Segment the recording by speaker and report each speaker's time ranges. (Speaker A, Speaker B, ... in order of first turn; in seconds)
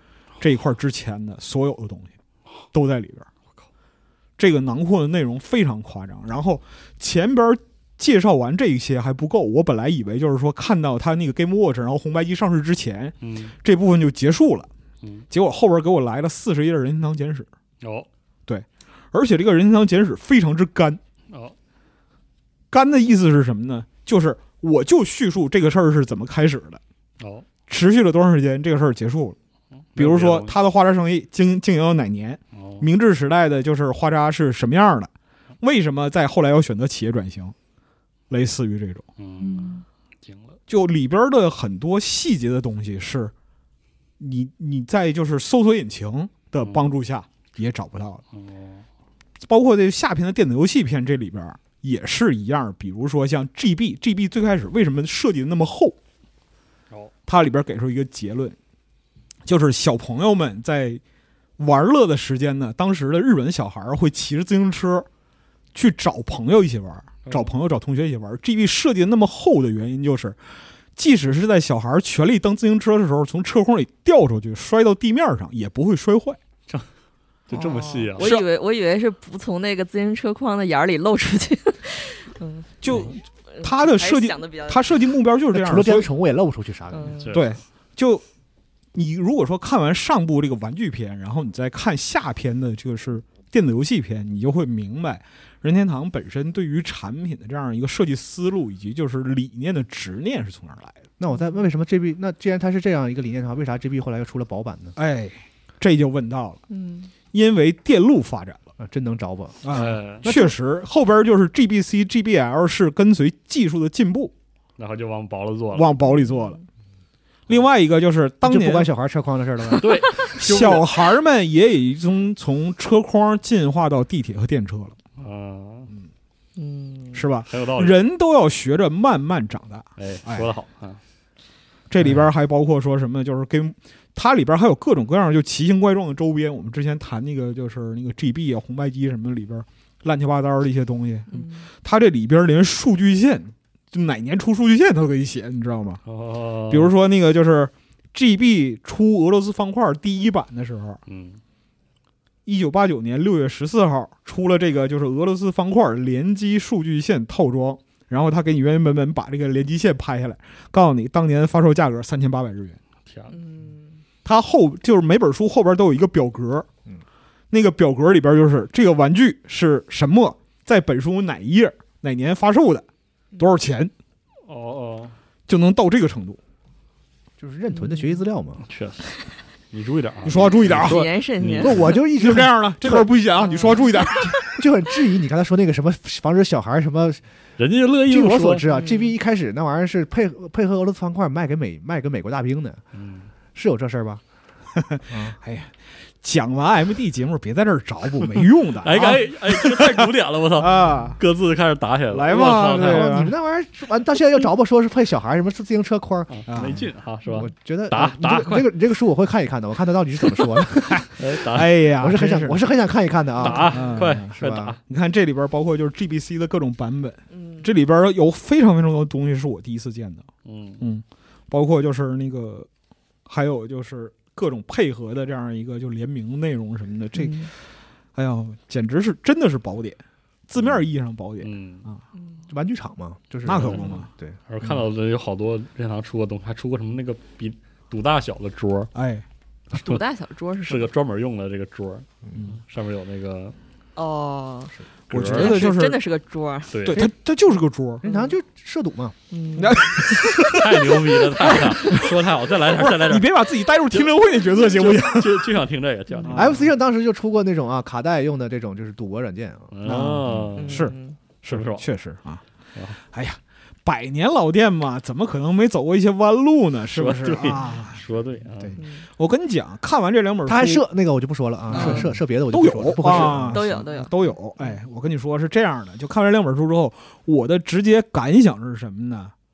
Speaker A: 0.4-2.1, 2.7-3.3, 4.4-14.7, 15.3-17.5, 18.5-21.0, 22.7-26.8, 27.7-29.4, 29.9-37.5, 38.3-39.1, 40.7-43.3, 44.2-48.2, 49.4-56.0, 57.3-58.5, 59.4-61.0, 61.6-65.1, 65.7-70.4, 71.0-76.4, 78.2-78.5, 82.8-86.1, 87.3-88.2, 88.9-101.0, 105.0-106.6, 107.3-108.7, 109.6-114.3, 115.7-116.6, 117.5-118.9, 120.2-125.0, 127.1-130.5, 131.9-146.0, 146.7-151.0, 152.4-162.8, 164.2-166.7, 167.5-172.9, 173.4-173.9, 175.5-176.4, 180.2-181.1, 181.6-184.6, 194.8-201.2, 202.1-203.3, 206.5-206.9, 210.9-212.7, 213.5-214.3, 214.9-220.2, 220.8-222.7, 223.2-227.6, 228.1-232.0, 233.4-234.1, 238.9-239.2, 245.1-246.0, 246.8-248.0, 249.6-255.6, 256.2-256.7, 259.8-260.9, 261.5-262.4, 262.9-268.0, 268.6-270.8, 271.7-279.3
Speaker B: 13.2-13.5, 17.8-18.1, 21.3-21.5, 27.2-27.5, 29.9-30.6, 32.5-32.9, 39.2-40.6, 46.6-46.9, 48.3-48.9, 67.2-67.5, 77.5-78.3, 87.2-87.5, 109.7-110.3, 114.8-115.9, 119.8-120.9, 125.2-125.9, 127.5-128.0, 130.0-131.0, 146.1-146.9, 151.1-151.4, 163.1-163.3, 174.4-175.2, 178.7-179.1, 179.7-181.9, 187.6-188.7, 192.9-193.3, 198.7-203.3, 206.3-208.7, 211.2-212.2, 213.4-214.8, 220.4-220.8, 231.4-231.8, 233.6-233.9, 234.5-238.9, 240.7-242.1, 242.6-243.6, 245.1-245.7, 246.7-247.1, 250.5-253.4, 253.9-256.6, 259.7-260.9, 261.4-261.9, 266.9-268.8
Speaker C: 39.4-39.8, 77.5-85.0, 86.9-87.4, 101.3-101.6, 106.7-107.1, 116.0-116.6, 126.5-127.3, 141.3-141.7, 163.3-164.0, 177.7-178.2, 180.7-182.0, 183.4-184.2, 188.7-189.1, 217.3-217.7, 227.2-227.5, 232.1-232.5, 239.7-240.9, 243.9-247.1, 248.0-248.3, 249.3-250.0, 256.1-256.5, 260.6-261.2, 268.8-269.1, 271.7-272.1, 273.0-274.8
Speaker D: 85.5-87.2, 101.2-104.9, 108.8-110.5, 118.4-120.4, 177.4-178.6, 181.6-183.1, 184.2-187.2, 188.1-192.8, 193.5-194.2, 195.1-195.4, 202.3-206.3, 207.4-211.1, 212.0-214.8, 232.5-234.4, 248.0-249.2, 256.3-259.7, 270.4-273.8